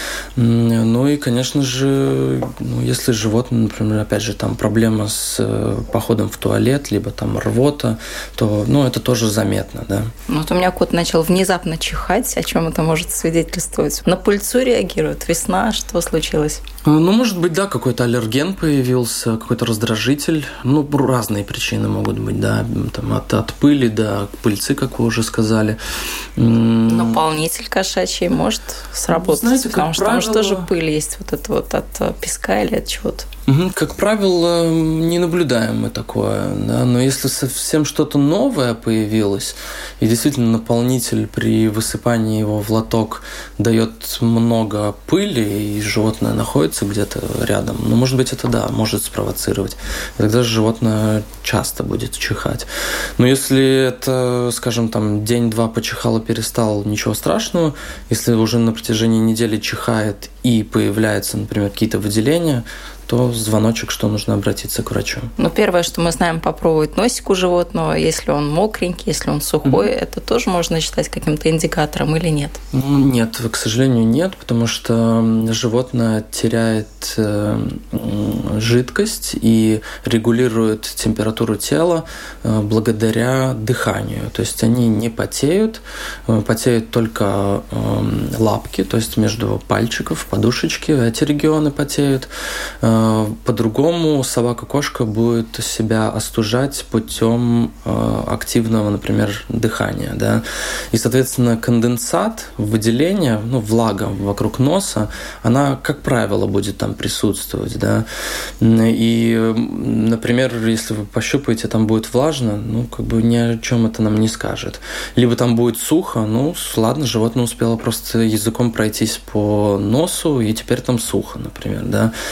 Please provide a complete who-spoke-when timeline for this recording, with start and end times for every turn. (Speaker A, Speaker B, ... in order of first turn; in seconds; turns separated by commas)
Speaker A: 0.3-10.1, Speaker B: 10.3-16.6, Speaker A: 16.8-25.8, Speaker A: 26.4-27.2, Speaker B: 26.9-33.3, Speaker A: 29.1-30.7, Speaker A: 33.5-65.3, Speaker B: 65.4-72.6, Speaker A: 69.6-69.9, Speaker A: 72.7-92.3, Speaker A: 92.8-108.1, Speaker A: 108.6-122.1